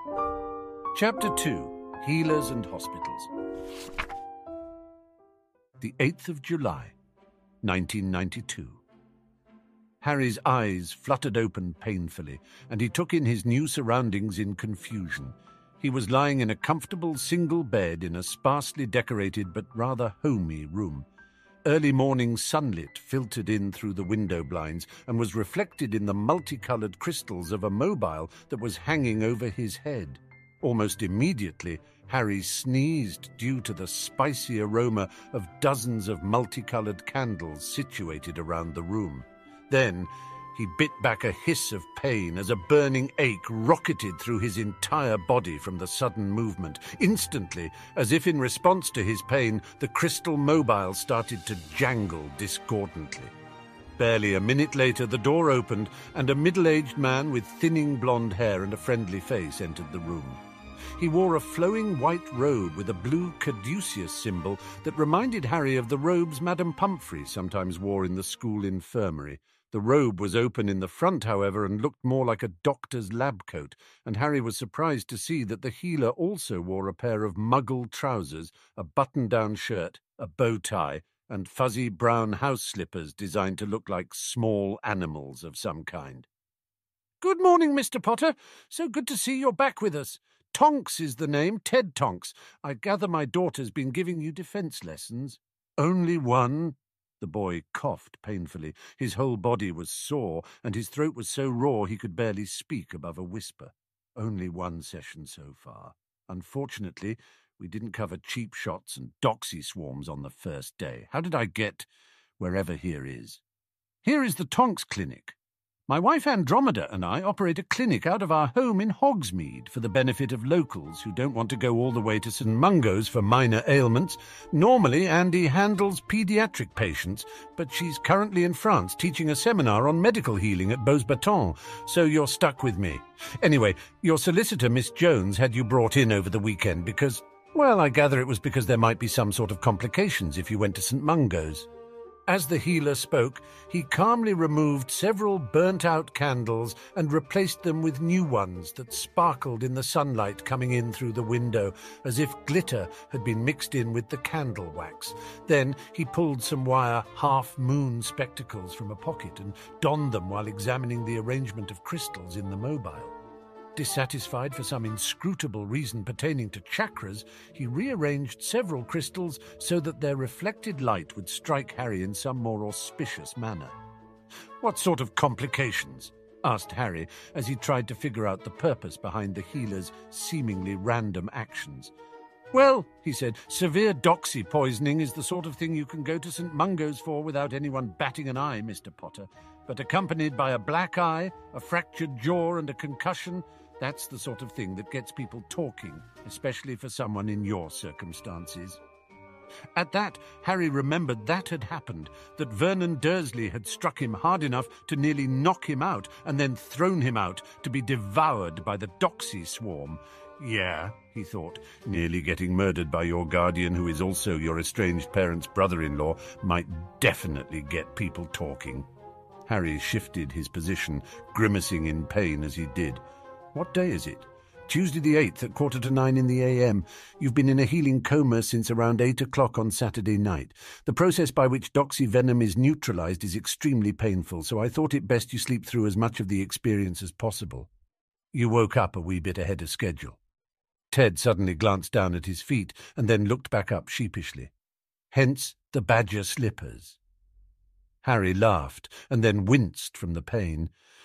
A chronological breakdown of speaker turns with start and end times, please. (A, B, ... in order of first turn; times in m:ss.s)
0:00.9-0:03.3 A
0:05.8-0:06.9 A
0:07.6-0:08.8 A
0:10.0-0:21.1 A
0:21.6-0:53.3 A
0:54.0-1:00.4 A
1:01.0-1:26.3 A
1:27.2-1:51.9 A
1:52.4-1:53.4 A
1:54.0-1:55.4 A
1:55.9-2:21.7 A
2:22.3-2:43.2 A
2:43.8-2:53.8 A
2:54.6-3:01.9 A
3:02.5-3:18.8 A
3:19.8-3:38.9 A
3:39.5-3:43.0 A
3:43.5-3:57.7 A
3:58.3-4:00.2 A
4:00.9-4:04.5 A
4:05.1-4:07.0 A
4:08.0-4:10.7 A